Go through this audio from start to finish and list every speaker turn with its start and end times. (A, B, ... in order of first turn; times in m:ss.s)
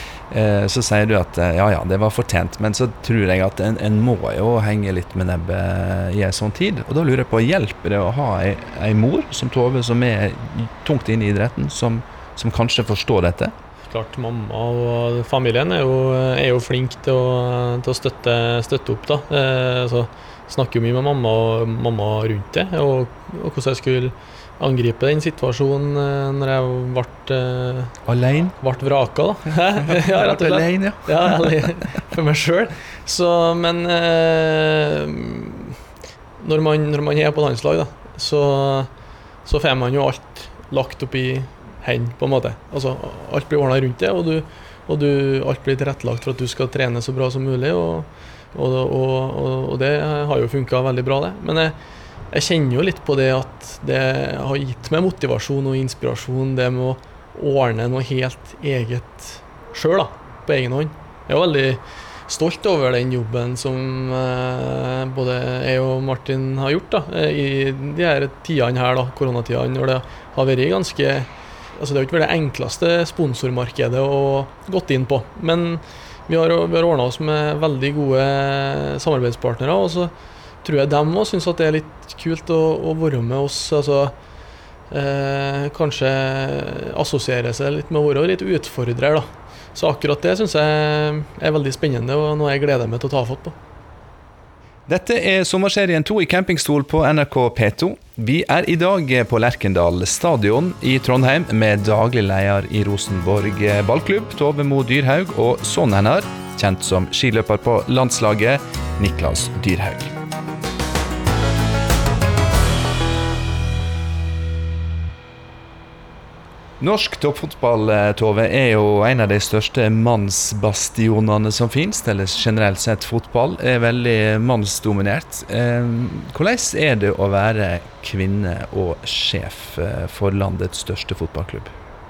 0:00.3-0:13.5 A
0:13.9-0:28.0 B
0:28.0-0:28.6 A
0:28.6-0:35.8 B
0:29.9-0:31.6 A
0:36.4-0:38.9 B
0:39.4-0:51.7 B
0:52.3-1:20.1 B
1:20.6-1:24.1 B
1:24.9-1:33.5 B
1:34.9-1:50.1 A
1:56.8-2:11.7 A